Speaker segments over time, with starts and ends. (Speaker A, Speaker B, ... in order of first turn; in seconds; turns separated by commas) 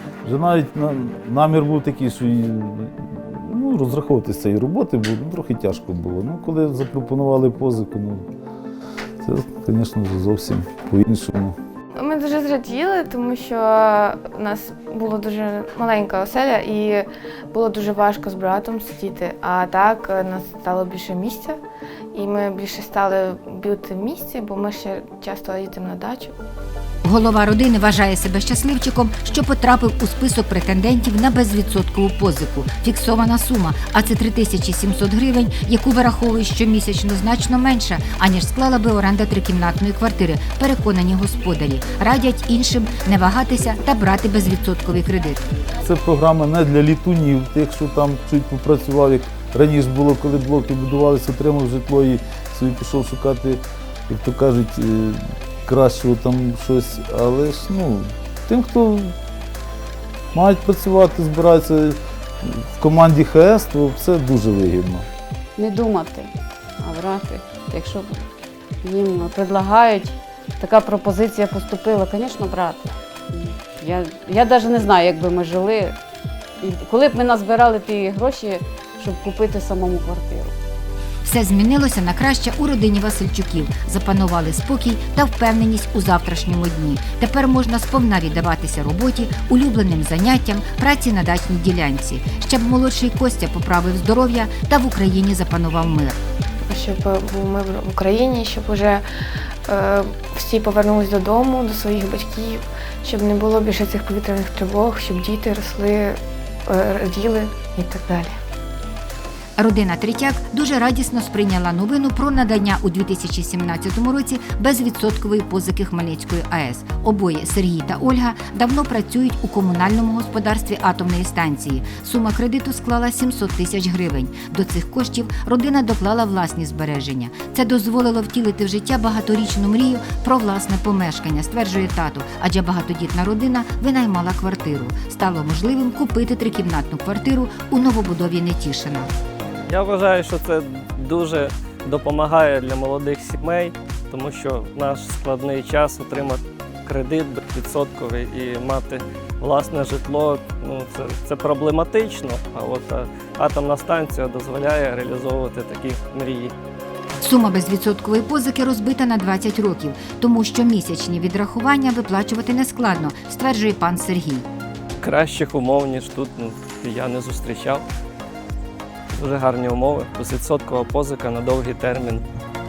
Speaker A: 0.2-8.3, Speaker A: 9.2-11.6, Speaker B: 11.9-21.6, Speaker B: 22.1-26.3, Speaker C: 27.0-45.4, Speaker A: 45.8-59.1, Speaker A: 60.3-65.1, Speaker D: 65.6-68.3, Speaker D: 68.8-76.0, Speaker D: 76.6-80.5, Speaker C: 81.2-96.2, Speaker B: 96.7-99.0, Speaker B: 99.7-108.3, Speaker C: 109.6-139.1, Speaker E: 139.7-156.6, Speaker C: 157.2-164.5, Speaker E: 165.0-167.8, Speaker E: 169.1-172.2